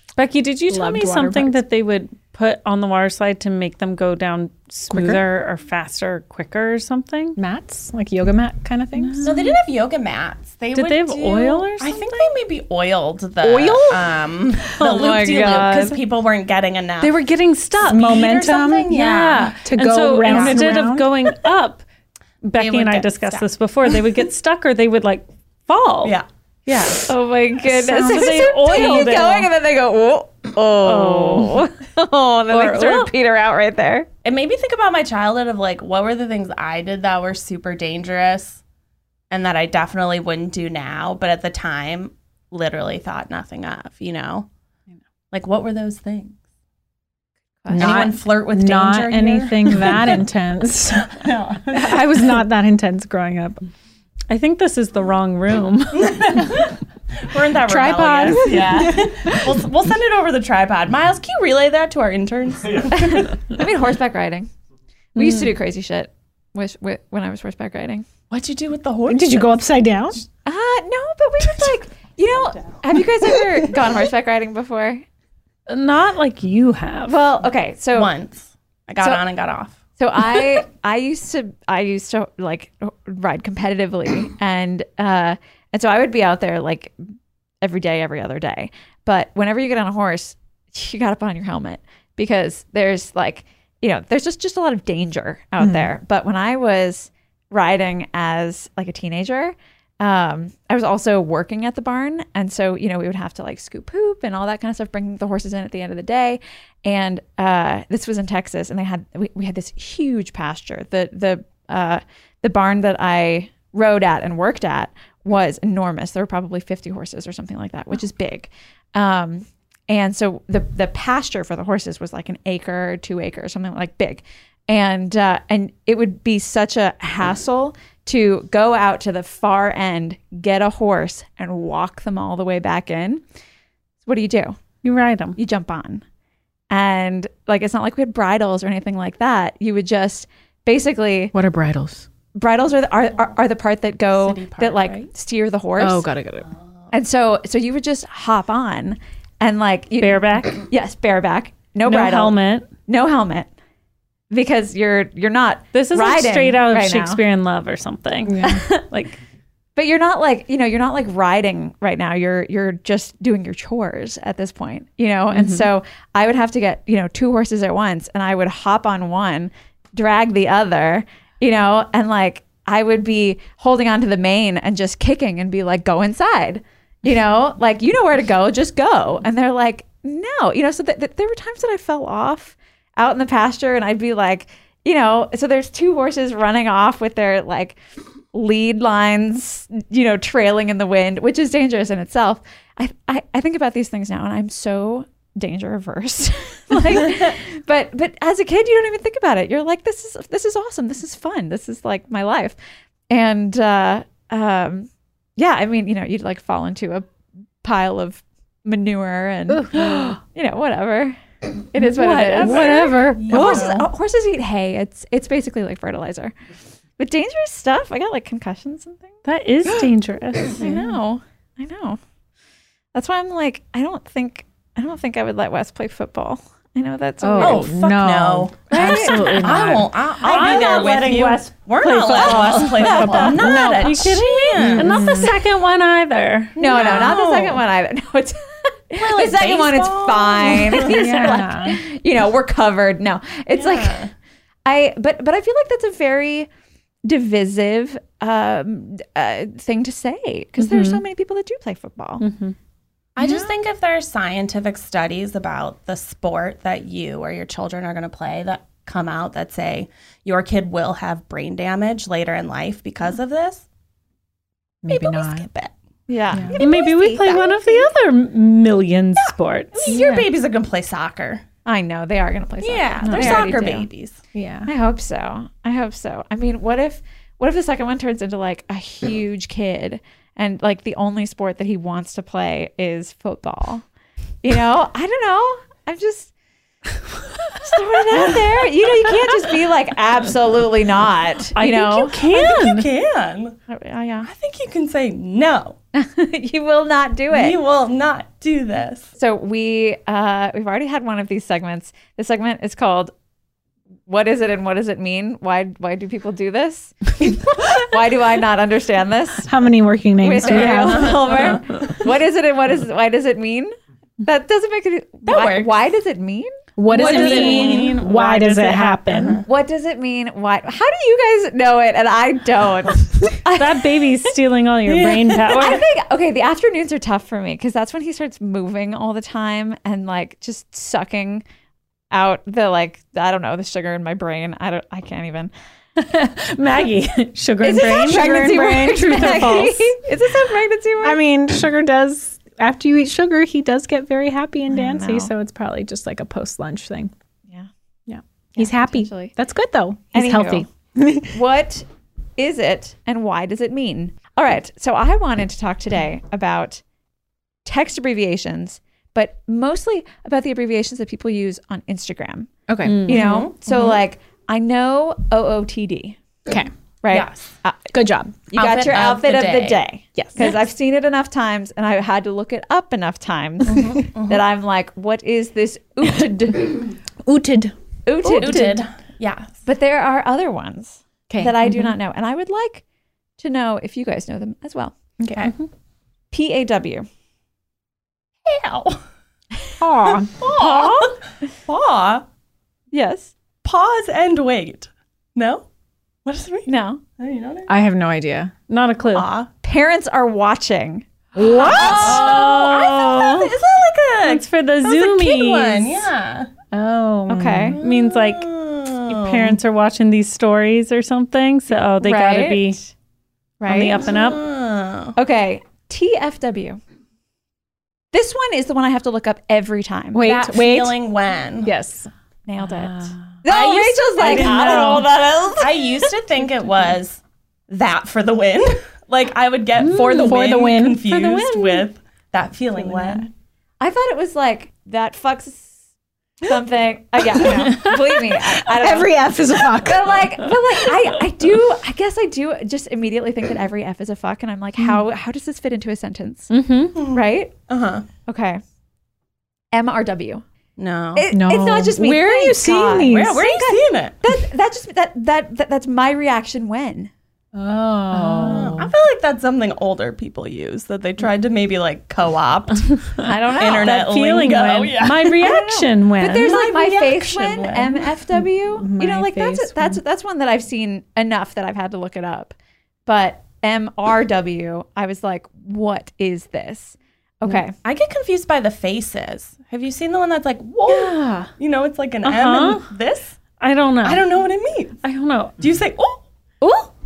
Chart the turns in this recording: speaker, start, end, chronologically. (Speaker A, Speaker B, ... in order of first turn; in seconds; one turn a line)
Speaker A: 0.2-7.4
Speaker B: 0.7-1.6
Speaker B: 4.9-5.2
Speaker B: 7.3-9.3
Speaker A: 9.0-9.6
Speaker C: 9.2-17.1
Speaker A: 10.7-12.2
Speaker B: 13.4-14.1
Speaker D: 14.8-16.0
Speaker A: 17.0-18.3
Speaker B: 17.8-18.9
Speaker C: 17.9-19.6
Speaker A: 18.9-21.8
Speaker B: 19.6-21.1
Speaker C: 20.2-20.7
Speaker A: 22.4-27.1
Speaker C: 22.6-23.5
Speaker D: 27.1-34.1
Speaker B: 27.7-29.2
Speaker A: 27.7-29.5
Speaker A: 30.8-31.6
Speaker A: 32.5-33.1
Speaker C: 34.2-38.6
Speaker C: 39.3-44.5
Speaker C: 45.3-46.4
Speaker D: 47.6-48.1
Speaker B: 47.7-53.6
Speaker C: 47.7-50.2
Speaker C: 51.0-52.3
Speaker A: 54.3-56.6
Speaker C: 55.9-63.6
Speaker B: 57.6-59.6
Speaker D: 62.9-64.5
Speaker D: 65.2-68.1
Speaker A: 65.2-65.5
Speaker C: 68.3-69.6
Speaker B: 69.1-70.2
Speaker D: 70.4-75.0
Speaker A: 75.7-77.2
Speaker D: 77.1-78.1
Speaker C: 77.9-79.8
Speaker D: 80.0-87.0
Speaker D: 87.6-133.2
Speaker B: 95.6-95.9
Speaker D: 134.0-134.6
Speaker A: 134.8-135.4
Speaker D: 135.3-136.0
Speaker D: 136.7-141.3
Speaker B: 141.3-142.1
Speaker D: 142.3-146.1
Speaker C: 144.1-145.1
Speaker B: 145.8-146.5
Speaker D: 146.9-153.5
Speaker A: 150.0-150.6
Speaker A: 151.8-152.7
Speaker D: 154.3-157.2
Speaker A: 155.7-159.2
Speaker B: 158.2-158.6
Speaker D: 158.4-158.8
Speaker D: 159.8-187.8
Speaker A: 165.3-165.7
Speaker D: 188.3-202.6
Speaker D: 203.1-207.1
Speaker D: 207.6-211.2
Speaker B: 209.5-210.1
Speaker D: 211.7-216.3
Speaker A: 212.0-213.2
Speaker B: 212.0-213.8
Speaker C: 212.3-213.9
Speaker D: 217.0-219.2
Speaker A: 219.2-220.6
Speaker D: 220.6-222.0
Speaker B: 220.6-220.9
Speaker D: 222.9-227.7
Speaker B: 227.2-229.9
Speaker C: 227.4-235.1
Speaker D: 228.7-229.5
Speaker A: 229.2-236.6
Speaker D: 232.8-233.4
Speaker B: 233.1-235.3
Speaker C: 236.6-237.6
Speaker D: 236.6-244.0
Speaker C: 239.0-241.0
Speaker B: 240.7-241.8
Speaker A: 240.8-241.5
Speaker C: 243.5-244.1
Speaker D: 244.6-246.5
Speaker D: 247.0-252.2
Speaker A: 250.6-251.0
Speaker A: 252.2-252.6
Speaker C: 253.2-263.6
Speaker B: 264.8-265.5
Speaker C: 264.9-265.7
Speaker D: 266.1-267.8
Speaker B: 266.3-266.6
Speaker A: 266.6-270.0
Speaker C: 269.7-271.4
Speaker B: 269.9-270.3
Speaker D: 271.6-273.9
Speaker C: 272.6-274.2
Speaker B: 273.0-273.6
Speaker B: 274.3-274.7
Speaker D: 274.6-283.8
Speaker D: 284.4-286.3
Speaker D: 287.6-292.1
Speaker A: 291.5-292.9
Speaker C: 292.1-293.6
Speaker D: 293.7-294.3
Speaker C: 294.2-295.8
Speaker D: 295.9-297.6
Speaker C: 297.3-299.1
Speaker D: 299.2-303.1
Speaker D: 304.1-309.5
Speaker B: 309.4-311.6
Speaker D: 310.2-317.8
Speaker C: 310.4-311.6
Speaker C: 315.2-315.7
Speaker B: 316.8-319.4
Speaker A: 316.9-319.4
Speaker C: 317.0-317.9
Speaker C: 319.2-319.4
Speaker D: 319.4-324.0
Speaker A: 323.5-325.8
Speaker C: 324.9-325.7
Speaker D: 325.5-331.4
Speaker D: 332.1-335.5
Speaker A: 335.9-339.9
Speaker D: 337.6-341.2
Speaker B: 338.0-339.8
Speaker B: 341.0-347.1
Speaker D: 344.7-345.3
Speaker B: 348.1-351.3
Speaker D: 348.6-349.3
Speaker D: 350.1-350.7
Speaker D: 351.3-351.9
Speaker D: 352.4-356.8
Speaker D: 357.6-362.5
Speaker B: 362.7-364.0
Speaker A: 362.8-363.4
Speaker D: 363.0-366.2
Speaker C: 363.1-363.5
Speaker D: 367.0-367.9
Speaker C: 367.1-367.6
Speaker B: 367.9-368.3
Speaker D: 368.5-376.9
Speaker C: 368.5-369.8
Speaker B: 370.1-370.6
Speaker C: 373.6-374.4
Speaker B: 377.2-377.7
Speaker D: 378.1-378.8
Speaker C: 378.2-379.6
Speaker D: 379.6-382.8
Speaker B: 381.3-381.9
Speaker D: 383.4-385.0
Speaker B: 385.2-385.5
Speaker D: 386.3-387.1
Speaker C: 388.4-389.0
Speaker B: 389.8-390.3
Speaker C: 390.1-392.2
Speaker A: 390.6-391.1
Speaker D: 392.9-393.3
Speaker C: 393.6-395.7
Speaker C: 396.2-397.7
Speaker D: 396.6-397.0
Speaker B: 397.7-398.5
Speaker A: 398.7-399.3
Speaker C: 399.1-399.5
Speaker D: 399.6-401.0
Speaker B: 401.3-402.2
Speaker C: 401.4-406.5
Speaker D: 401.6-402.4
Speaker A: 401.8-403.6
Speaker A: 404.2-406.1
Speaker B: 406.7-407.8
Speaker D: 407.3-407.8
Speaker C: 407.8-409.6
Speaker A: 407.8-408.5
Speaker A: 409.1-412.8
Speaker D: 412.0-412.8
Speaker D: 413.6-414.0
Speaker A: 413.6-414.4
Speaker C: 413.9-415.1
Speaker D: 415.1-416.8
Speaker D: 418.1-420.3
Speaker B: 420.1-421.0
Speaker C: 420.2-421.7
Speaker B: 421.6-422.1
Speaker D: 422.5-426.1
Speaker C: 423.4-433.3
Speaker A: 424.2-425.1
Speaker A: 429.8-430.4
Speaker B: 429.9-431.2
Speaker A: 431.1-431.9
Speaker B: 432.8-433.2
Speaker D: 433.8-435.8
Speaker D: 436.4-447.5
Speaker B: 437.3-440.5
Speaker B: 444.8-445.0
Speaker A: 446.5-447.1
Speaker C: 446.9-448.1
Speaker D: 448.2-448.6
Speaker D: 449.7-450.4
Speaker C: 450.8-451.3
Speaker D: 451.1-457.1
Speaker B: 451.3-453.5
Speaker C: 453.0-454.2
Speaker B: 457.5-458.9
Speaker C: 458.3-465.5
Speaker D: 458.4-458.7
Speaker D: 463.2-464.1
Speaker A: 463.7-466.6
Speaker D: 465.4-472.5
Speaker C: 466.3-468.1
Speaker B: 468.8-470.0
Speaker D: 473.1-477.7
Speaker C: 477.8-483.4
Speaker D: 480.9-481.5
Speaker A: 482.2-482.9
Speaker A: 483.6-484.3
Speaker C: 484.0-485.0
Speaker A: 485.0-485.6
Speaker C: 485.6-486.2